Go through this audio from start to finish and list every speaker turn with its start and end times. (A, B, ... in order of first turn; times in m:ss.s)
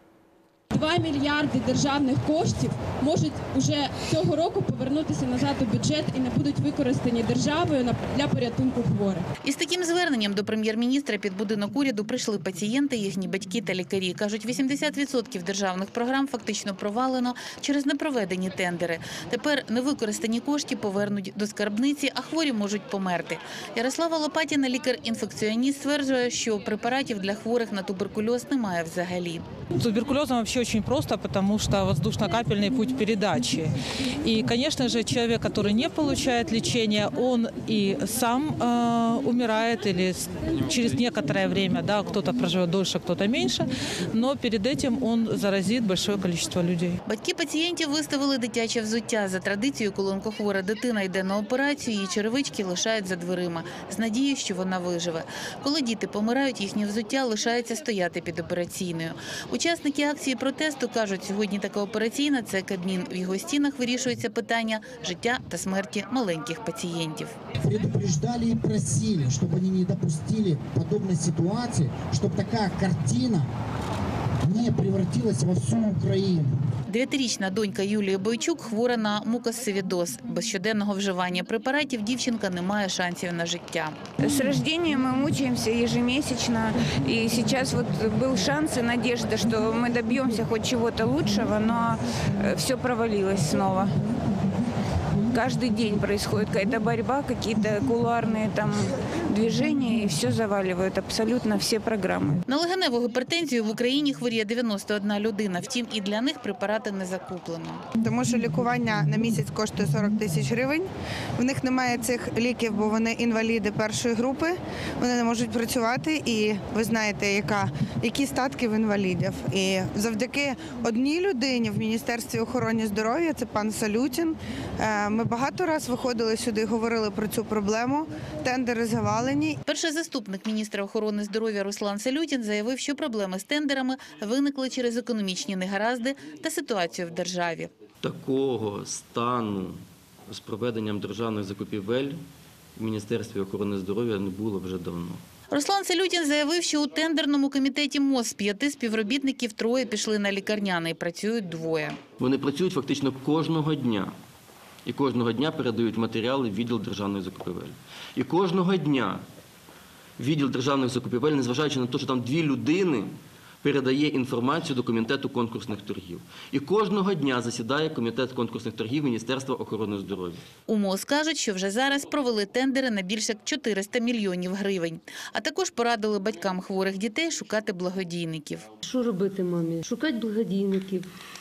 0:00.7-0:09.2 A
0:09.4-0:29.4 B
0:29.8-0:33.7 C
0:34.2-0:47.0 C
0:47.0-1:07.3 B
1:07.6-1:13.5 D
1:14.4-1:16.5 D
1:16.9-1:24.0 B
1:24.2-1:33.9 E
1:35.3-1:42.4 E
1:42.5-1:47.8 B
1:48.0-2:09.6 F
2:09.7-2:17.7 B
2:18.0-2:22.2 G
2:22.8-2:25.2 G
2:25.5-2:32.0 B
2:32.2-2:34.1 G
2:34.9-2:39.2 G
2:40.2-2:50.4 G
2:50.7-2:58.7 B
2:58.8-3:01.1 H